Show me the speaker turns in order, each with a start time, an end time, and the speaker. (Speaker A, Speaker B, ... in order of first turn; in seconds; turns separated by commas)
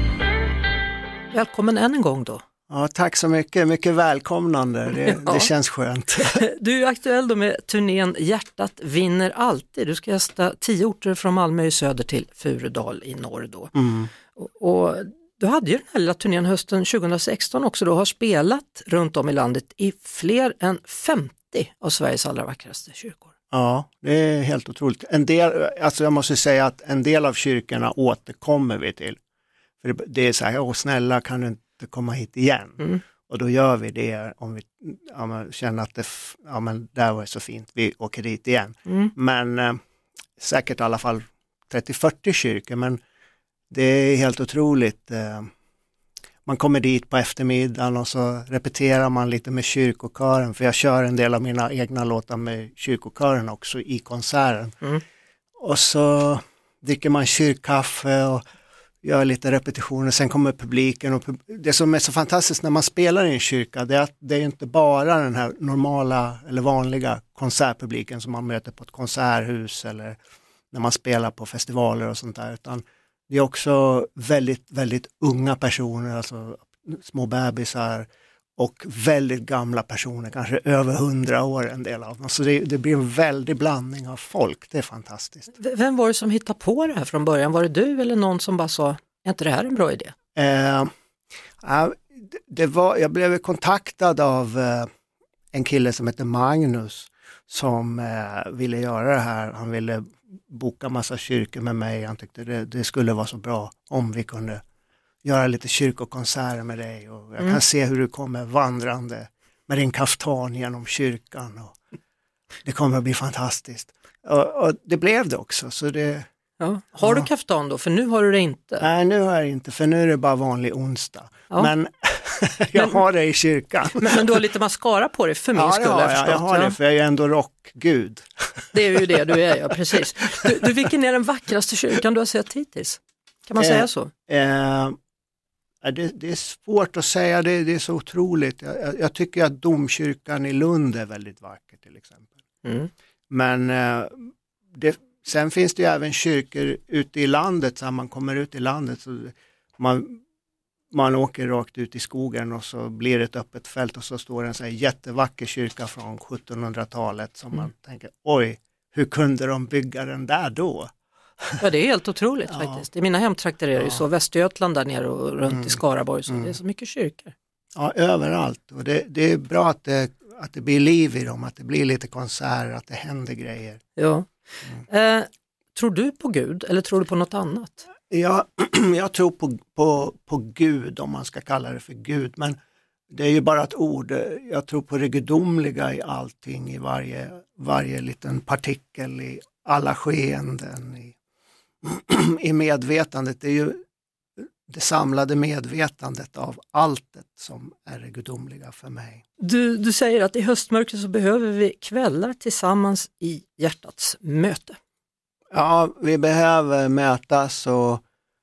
Speaker A: 1.3-2.4, Speaker B: 2.7-6.4, Speaker A: 5.0-5.5, Speaker A: 6.2-13.7, Speaker B: 13.7-14.1, Speaker A: 14.3-23.3, Speaker B: 23.5-29.2, Speaker B: 29.8-39.8, Speaker A: 38.9-39.1, Speaker B: 40.4-43.0, Speaker B: 43.7-45.5, Speaker B: 46.4-54.8, Speaker B: 55.6-58.4, Speaker B: 59.0-70.2, Speaker B: 70.7-85.5, Speaker A: 85.5-90.1, Speaker B: 90.3-90.9, Speaker B: 91.6-94.9, Speaker B: 95.5-104.6, Speaker B: 105.2-111.7, Speaker B: 112.6-116.2, Speaker A: 116.6-118.8, Speaker B: 117.0-117.3, Speaker B: 118.8-124.4, Speaker A: 122.8-123.0, Speaker A: 123.9-126.8, Speaker B: 125.5-130.0, Speaker A: 128.7-134.1, Speaker B: 133.6-134.9, Speaker B: 135.8-142.3, Speaker A: 142.6-142.9, Speaker B: 143.3-150.2, Speaker B: 150.9-160.9, Speaker A: 161.6-167.3, Speaker B: 162.5-162.8, Speaker B: 163.8-164.0, Speaker B: 165.5-165.8, Speaker B: 167.7-173.8, Speaker A: 173.9-174.3, Speaker A: 174.9-177.9, Speaker B: 178.1-182.6, Speaker B: 183.1-191.1, Speaker B: 191.8-193.8, Speaker B: 194.7-199.2, Speaker A: 199.4-204.8, Speaker B: 205.5-208.0